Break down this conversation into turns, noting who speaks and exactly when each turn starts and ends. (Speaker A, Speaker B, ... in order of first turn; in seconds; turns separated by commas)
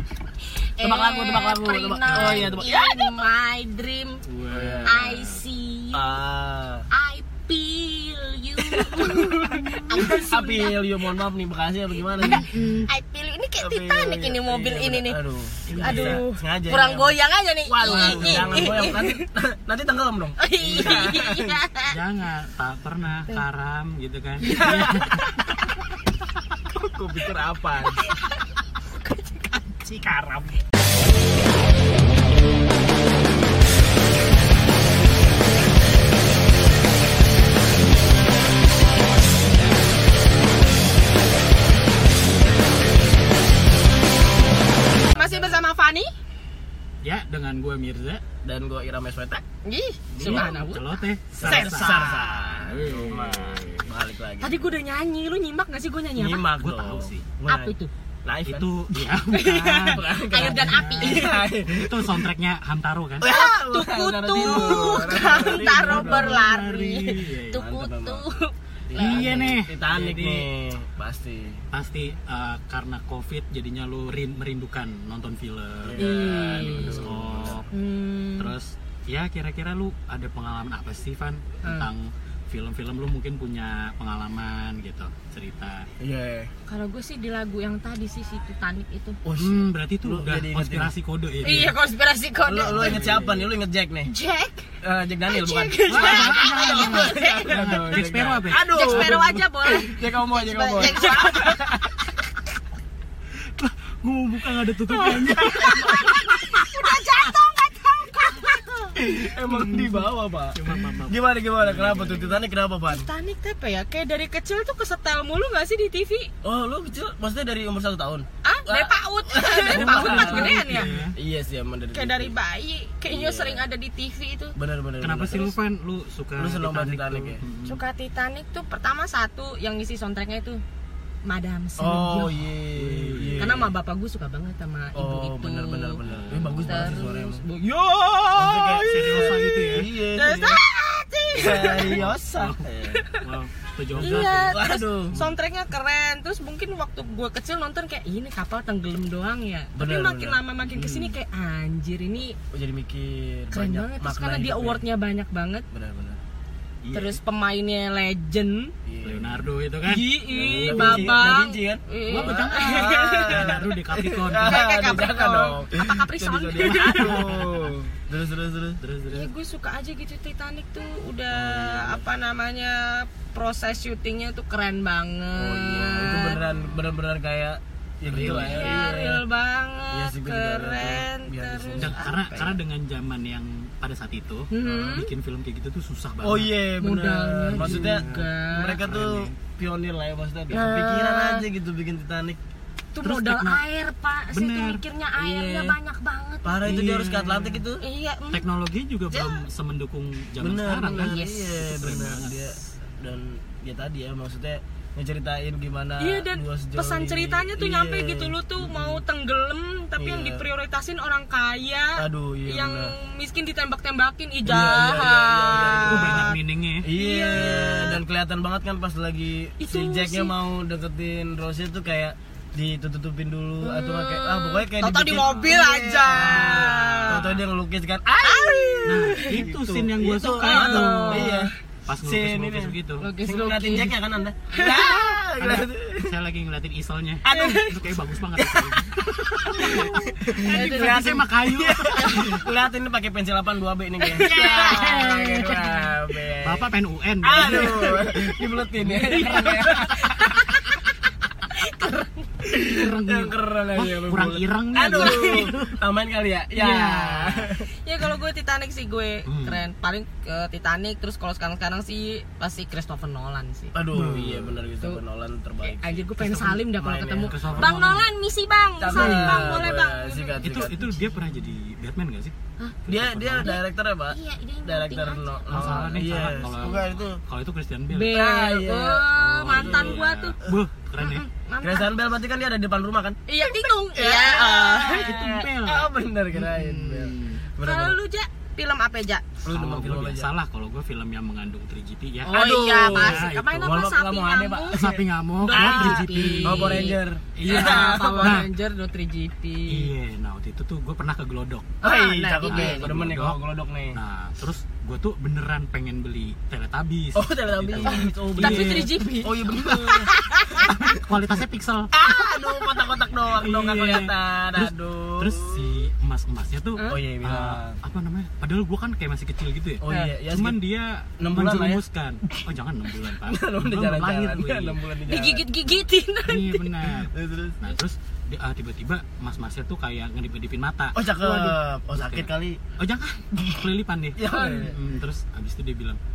Speaker A: 0.8-4.2, Speaker B: 0.8-3.2, Speaker C: 2.1-2.6, Speaker C: 4.2-5.4, Speaker B: 4.5-4.9, Speaker A: 4.8-6.2, Speaker B: 5.9-6.8, Speaker A: 6.9-10.8, Speaker B: 8.6-12.5, Speaker A: 12.2-15.2, Speaker C: 12.4-12.9, Speaker B: 13.6-21.6, Speaker C: 15.7-16.2, Speaker A: 15.7-19.2, Speaker C: 17.9-18.8, Speaker A: 20.4-21.9, Speaker C: 21.9-25.3, Speaker A: 24.4-25.2, Speaker B: 24.6-24.9, Speaker B: 26.7-28.0, Speaker A: 28.0-28.3, Speaker A: 29.0-29.5, Speaker B: 29.9-30.5, Speaker A: 45.1-46.1, Speaker B: 45.1-45.6, Speaker C: 47.0-48.2, Speaker B: 48.4-49.4, Speaker A: 49.6-52.1, Speaker C: 50.1-53.9, Speaker B: 50.2-50.5, Speaker B: 51.4-54.6, Speaker A: 54.4-56.5, Speaker B: 56.1-58.7, Speaker C: 56.6-57.3, Speaker A: 57.5-57.9, Speaker C: 58.5-63.3, Speaker A: 59.3-61.2, Speaker B: 59.5-62.3, Speaker B: 63.2-66.4, Speaker A: 63.2-69.5, Speaker C: 64.4-67.6, Speaker B: 67.5-68.2, Speaker B: 68.9-71.6, Speaker C: 68.9-70.5, Speaker C: 71.7-77.7, Speaker B: 75.8-77.6, Speaker A: 76.0-77.1, Speaker A: 77.7-78.5, Speaker C: 78.4-85.9, Speaker A: 81.6-81.9, Speaker B: 86.0-86.5, Speaker A: 86.7-89.2, Speaker B: 89.2-90.9, Speaker C: 89.4-91.8, Speaker A: 91.4-93.2, Speaker B: 92.4-94.1, Speaker C: 92.6-93.5, Speaker A: 94.0-94.7, Speaker B: 94.8-101.9, Speaker A: 95.3-98.0, Speaker C: 95.9-99.2, Speaker A: 98.6-101.7, Speaker C: 103.5-106.5, Speaker A: 104.9-109.0, Speaker B: 105.4-106.2, Speaker B: 109.0-113.1, Speaker A: 109.5-109.9, Speaker C: 110.5-112.4, Speaker A: 112.9-116.3, Speaker B: 116.4-122.3, Speaker A: 118.4-120.9, Speaker C: 119.7-121.1, Speaker A: 121.9-124.5, Speaker B: 123.1-123.6, Speaker B: 124.5-125.5, Speaker C: 125.0-127.8, Speaker B: 126.3-127.4, Speaker A: 127.7-130.6, Speaker A: 131.2-132.3, Speaker B: 131.8-133.7, Speaker C: 132.8-133.4, Speaker A: 133.4-136.0, Speaker B: 134.9-137.4, Speaker C: 136.0-137.0, Speaker A: 136.6-142.0, Speaker B: 138.3-140.6, Speaker C: 138.9-139.9, Speaker B: 141.3-143.0, Speaker C: 141.4-142.6, Speaker A: 142.9-143.2, Speaker C: 143.2-145.3, Speaker B: 143.9-145.2, Speaker A: 144.0-152.4, Speaker B: 149.8-151.1, Speaker B: 152.5-154.8, Speaker A: 153.5-155.7, Speaker B: 155.7-156.2, Speaker C: 156.8-157.2, Speaker A: 156.9-158.7, Speaker B: 158.8-159.4, Speaker C: 159.0-161.3, Speaker A: 159.8-163.5, Speaker B: 160.3-168.8, Speaker C: 162.1-165.1, Speaker A: 164.4-167.2, Speaker C: 166.7-167.7, Speaker C: 168.8-169.3, Speaker A: 169.1-176.4, Speaker B: 171.6-172.0, Speaker B: 175.3-179.2, Speaker C: 176.4-176.8, Speaker C: 178.1-178.9, Speaker A: 178.2-182.6, Speaker B: 179.9-182.0, Speaker C: 181.8-186.5, Speaker A: 184.5-185.1, Speaker B: 184.6-185.0, Speaker B: 186.2-192.4, Speaker A: 186.8-188.8, Speaker C: 187.5-188.2, Speaker C: 188.8-189.3, Speaker A: 190.5-191.4, Speaker A: 192.9-196.8, Speaker C: 193.0-193.6, Speaker C: 194.3-194.8, Speaker B: 195.2-195.8, Speaker B: 196.4-197.8, Speaker C: 196.6-197.6, Speaker A: 197.8-198.4, Speaker C: 198.3-202.5, Speaker A: 199.1-199.4, Speaker B: 200.4-209.0, Speaker A: 200.9-201.6, Speaker A: 206.0-216.4, Speaker B: 210.0-210.4, Speaker B: 212.0-212.9, Speaker B: 214.4-236.2, Speaker C: 215.5-216.9, Speaker A: 216.9-218.0, Speaker A: 219.6-220.3, Speaker A: 223.6-227.2, Speaker C: 225.1-225.5, Speaker C: 226.1-227.4, Speaker A: 228.2-229.4, Speaker C: 228.8-233.1, Speaker A: 230.4-231.5, Speaker A: 233.0-233.9, Speaker A: 234.5-234.9, Speaker C: 235.4-242.4, Speaker B: 237.2-237.6, Speaker A: 237.3-237.7, Speaker B: 239.2-250.4, Speaker A: 239.6-241.1, Speaker A: 244.0-245.9, Speaker C: 244.2-245.3, Speaker C: 246.4-248.1, Speaker C: 249.0-249.3, Speaker A: 249.1-250.7, Speaker A: 251.6-252.1, Speaker B: 252.4-257.7, Speaker C: 252.5-255.8, Speaker A: 254.9-255.5, Speaker A: 256.5-263.7, Speaker C: 259.2-259.6, Speaker B: 263.7-266.1, Speaker C: 263.9-264.6, Speaker A: 265.6-270.6, Speaker C: 266.2-266.6, Speaker B: 266.7-267.7, Speaker C: 267.3-268.1, Speaker B: 268.8-271.0, Speaker C: 268.9-269.6, Speaker C: 270.4-272.3, Speaker C: 272.9-273.5, Speaker B: 272.9-277.2, Speaker A: 273.4-276.7, Speaker C: 275.5-278.1, Speaker A: 277.9-280.4, Speaker B: 278.1-280.0, Speaker C: 279.1-281.2, Speaker A: 281.0-281.9, Speaker B: 281.6-288.0, Speaker A: 283.3-285.2, Speaker C: 284.9-285.9, Speaker A: 286.4-287.1, Speaker C: 287.0-287.4, Speaker A: 287.6-289.2, Speaker B: 289.4-290.3, Speaker C: 289.5-293.8, Speaker B: 292.2-298.4, Speaker A: 292.3-294.8, Speaker C: 294.7-298.5, Speaker A: 295.4-299.9, Speaker C: 299.7-301.8, Speaker A: 301.8-302.9, Speaker B: 301.8-304.0, Speaker C: 302.4-303.4, Speaker C: 303.9-308.9, Speaker B: 307.1-310.1, Speaker A: 307.8-310.7, Speaker C: 310.6-311.9, Speaker B: 311.9-315.8, Speaker C: 313.2-324.8, Speaker B: 316.9-317.8, Speaker B: 319.8-320.6, Speaker B: 321.2-321.8, Speaker B: 323.1-325.4, Speaker A: 325.0-326.7, Speaker C: 326.2-336.0, Speaker B: 327.1-327.6, Speaker B: 330.9-332.6, Speaker B: 333.3-334.8, Speaker A: 334.3-334.7